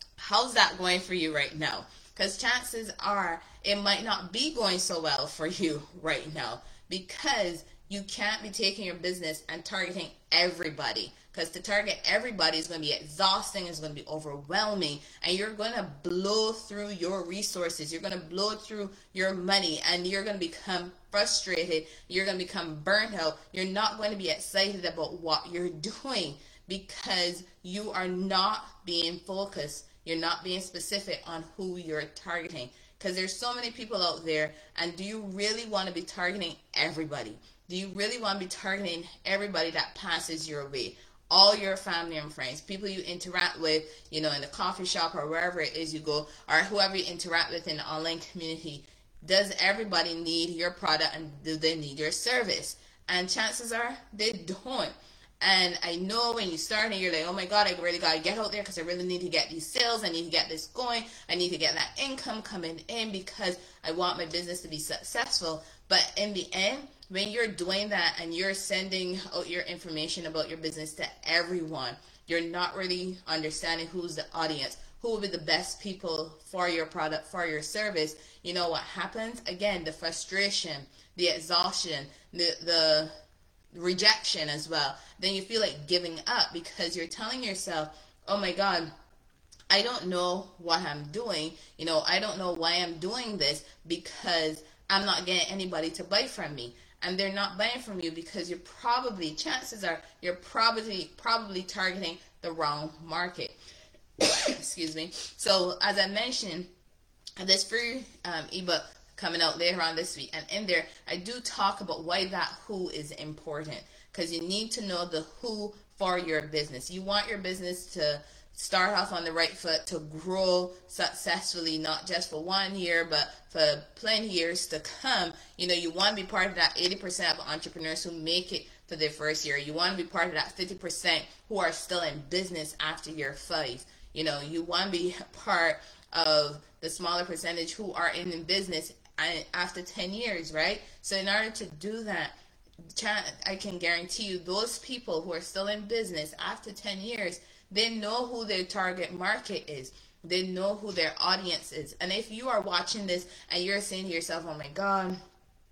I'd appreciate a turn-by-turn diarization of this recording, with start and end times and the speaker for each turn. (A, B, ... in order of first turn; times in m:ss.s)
0:00.2-1:23.1 A
1:23.7-1:28.9 A
1:29.7-1:43.6 A
1:44.2-1:46.7 A
1:47.4-2:22.4 A
2:23.0-2:35.2 A